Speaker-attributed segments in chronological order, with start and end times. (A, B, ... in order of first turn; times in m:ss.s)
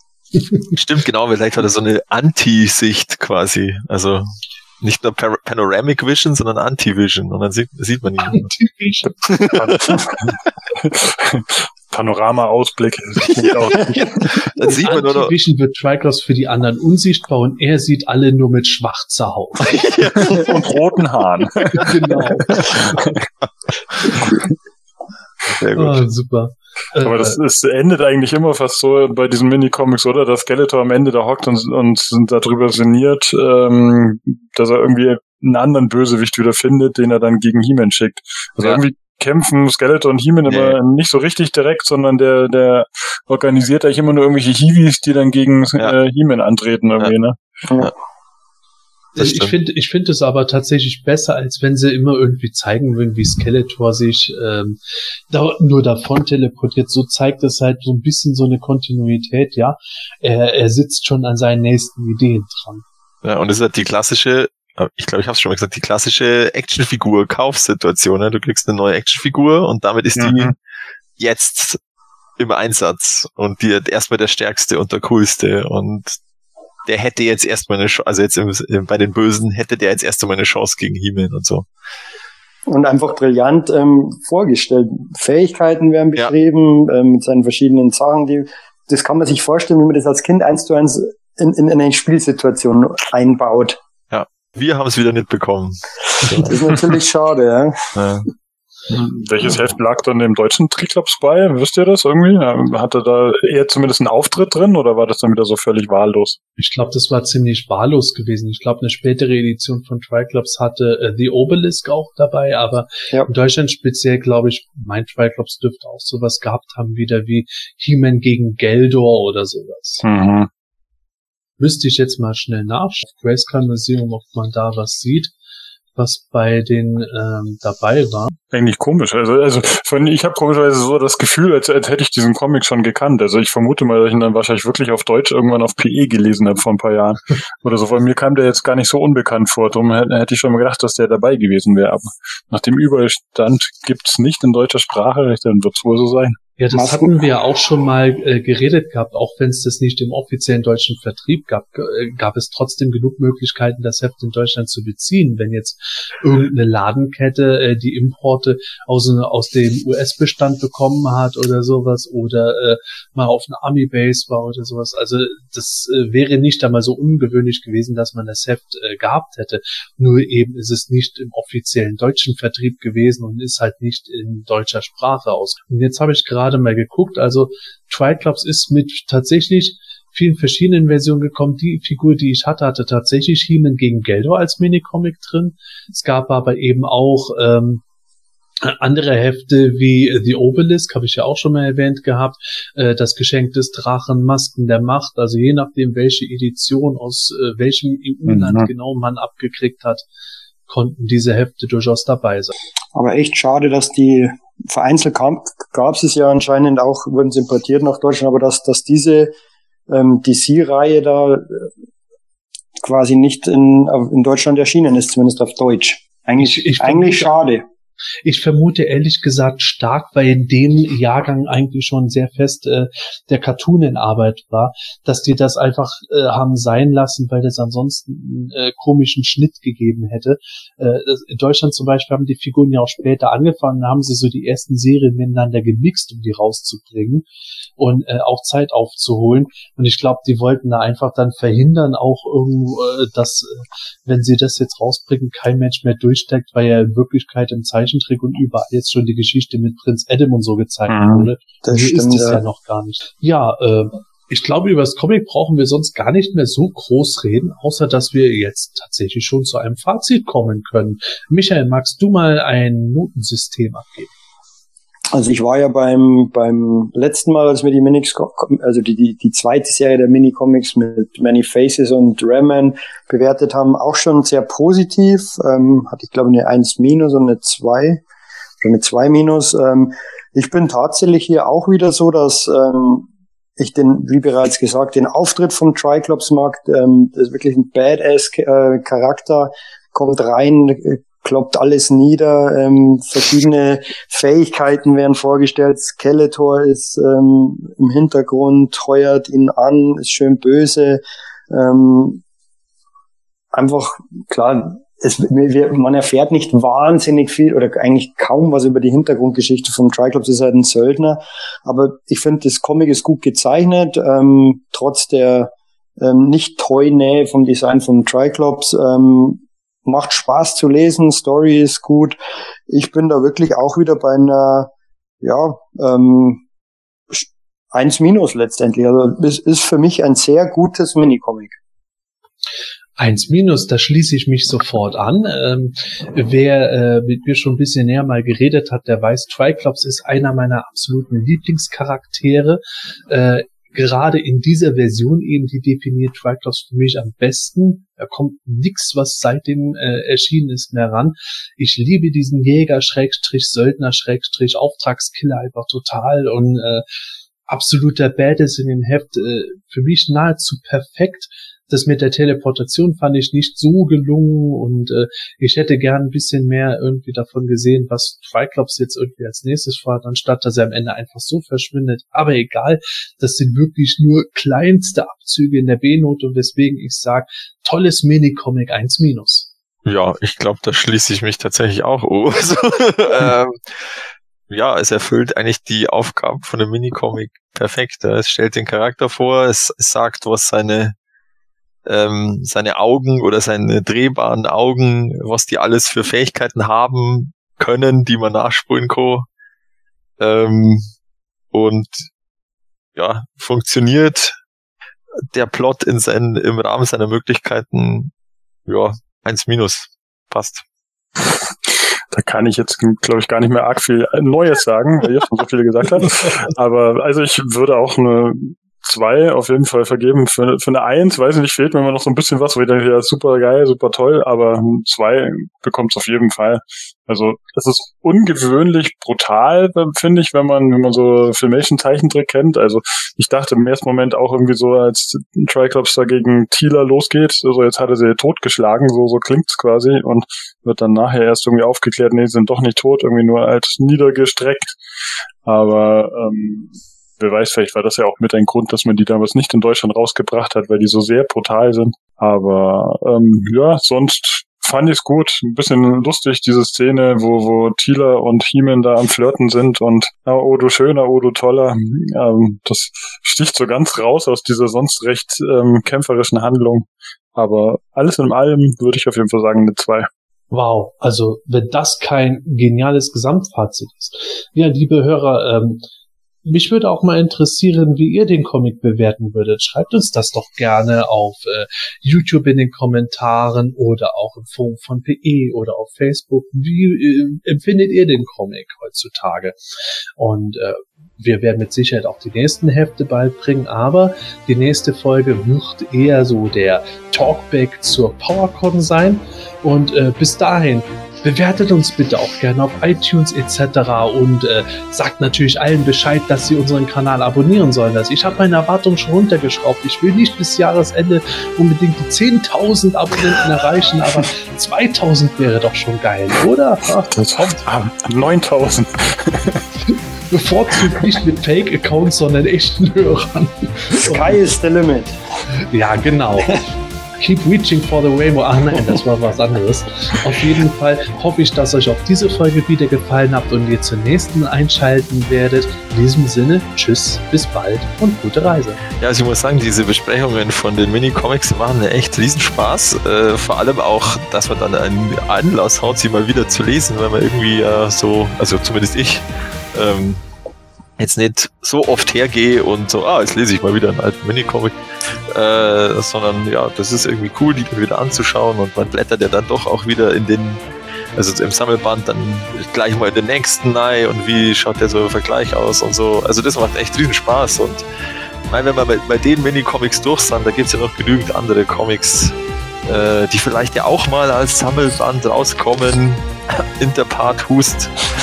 0:00.7-0:08.5 A
0:08.2-0:09.3 B
0:09.3-0:10.1 A
0:09.5-0:14.2 C
0:14.2-0:15.3 A
0:14.6-0:20.4 B
0:19.6-0:20.5 A
0:20.2-0:23.1 C
0:21.7-0:23.1 B
0:25.6-0:26.1 A
0:25.8-0:27.4 B
0:27.0-0:47.4 C
0:40.5-0:40.8 A
0:47.7-0:47.9 D
0:49.1-0:54.8 B
0:49.2-0:49.6 A
0:55.3-1:02.8 B
1:03.2-1:10.5 A
1:10.2-1:10.5 C
1:11.2-1:11.8 A
1:12.4-1:16.1 A
1:16.9-1:21.7 A
1:22.7-1:33.8 D
1:34.1-1:36.7 A
1:36.4-1:38.0 D
1:38.0-1:38.3 A
1:39.0-1:46.4 C
1:46.6-2:00.0 B
2:00.0-2:00.5 C
2:01.6-2:05.3 B
2:06.0-2:08.3 B
2:08.5-2:26.4 C
2:26.6-3:07.8 B
2:26.7-2:27.2 D
3:08.6-3:20.0 B
3:18.3-3:18.7 C
3:20.7-3:22.5 B
3:23.0-3:29.3 D
3:29.9-3:31.7 D
3:32.8-3:37.7 D
3:36.4-3:37.3 B
3:38.2-3:57.3 B
3:57.8-4:24.1 B
4:10.9-4:11.3 C
4:11.6-4:12.4 D
4:25.1-4:38.0 D
4:38.6-4:43.1 D
4:43.6-5:02.2 D
5:03.5-5:22.2 D
5:22.7-5:24.7 D
5:25.2-5:26.4 D
5:27.1-5:31.6 D
5:33.0-5:56.9 B
5:57.5-6:19.5 B
6:19.8-6:23.8 A
6:24.5-6:31.0 A
6:31.9-6:39.3 A
6:40.2-6:40.9 A
6:41.5-6:42.1 A
6:43.0-6:44.4 A
6:45.3-6:48.1 A
6:48.7-6:50.6 A
6:51.2-7:24.8 C
7:25.4-7:50.1 C
7:50.5-7:55.8 B
7:56.4-8:09.6 B
8:10.2-8:37.6 B
8:37.1-8:39.7 C
8:39.9-8:44.4 B
8:44.0-8:45.2 D
8:45.7-8:46.7 B
8:47.2-8:58.8 B
8:59.0-9:10.2 A
9:11.0-9:14.8 A
9:15.3-9:20.6 A
9:21.1-9:27.8 A
9:28.5-9:32.4 A
9:32.9-9:38.0 A